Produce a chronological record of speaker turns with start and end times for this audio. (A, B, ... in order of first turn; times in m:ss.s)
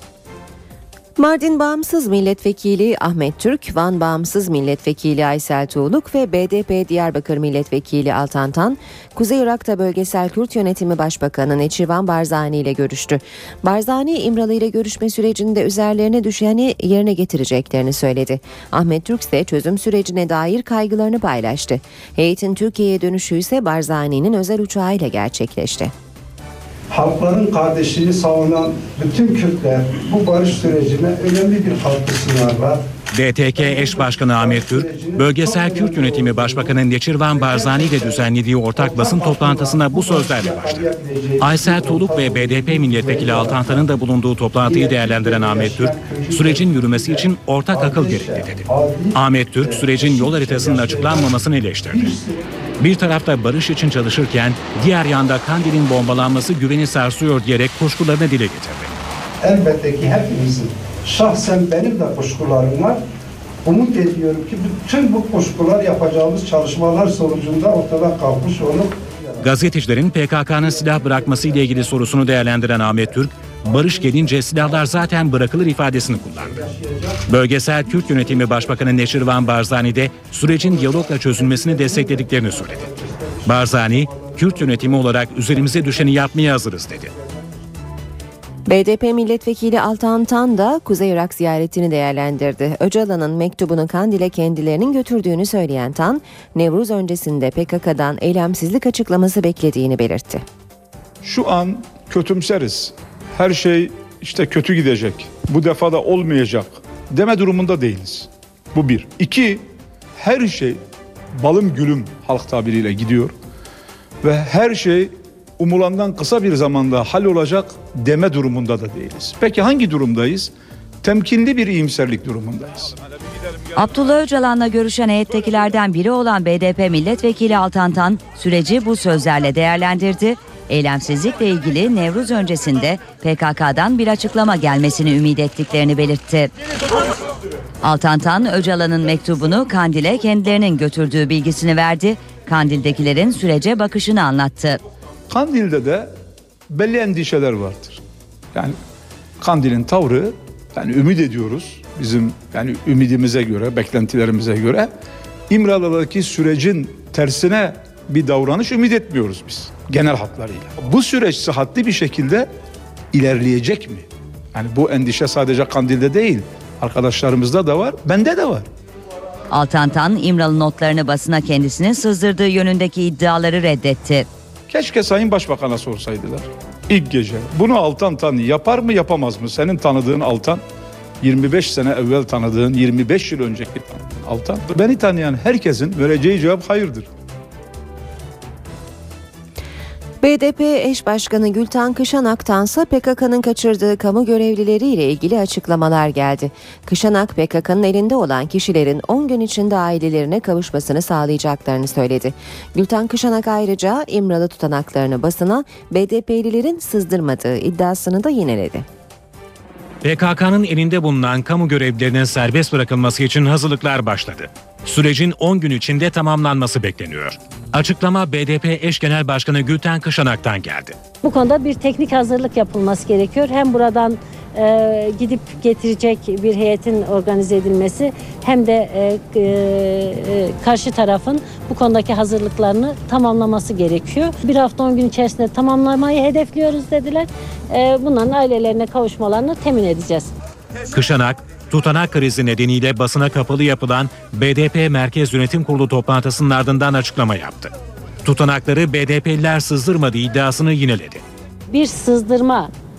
0:01.2-0:25.9 A
0:26.9-0:32.9 B
0:33.1-0:40.9 C
0:33.5-0:43.9 B
0:41.4-0:52.1 C
0:44.6-0:52.5 B
0:52.8-0:58.9 C
0:59.4-1:03.0 B
1:03.6-1:09.4 B
1:09.4-1:16.6 C
1:10.9-1:12.1 B
1:13.7-1:14.3 B
1:16.6-1:17.2 B
1:17.2-1:22.9 C
1:18.2-1:18.6 B
1:20.5-1:24.8 B
1:23.4-1:27.1 C
1:25.7-1:26.0 B
1:28.6-1:40.4 A
1:41.2-1:49.6 D
1:50.2-1:50.8 D
1:51.4-1:53.3 D
1:54.2-2:00.5 D
2:01.0-2:02.9 D
2:03.7-2:16.5 E
2:17.8-2:24.8 E
2:25.3-2:26.1 D
2:26.7-2:28.0 D
2:29.4-2:34.9 D
2:35.5-2:42.5 D
2:43.1-2:48.6 D
2:49.5-2:54.3 E
2:54.7-3:00.6 D
3:01.2-3:07.1 D
3:10.2-3:28.8 A
3:30.0-3:40.9 C
3:41.2-4:00.3 F
4:00.9-4:07.7 C
4:08.2-4:11.2 C
4:11.7-4:12.7 F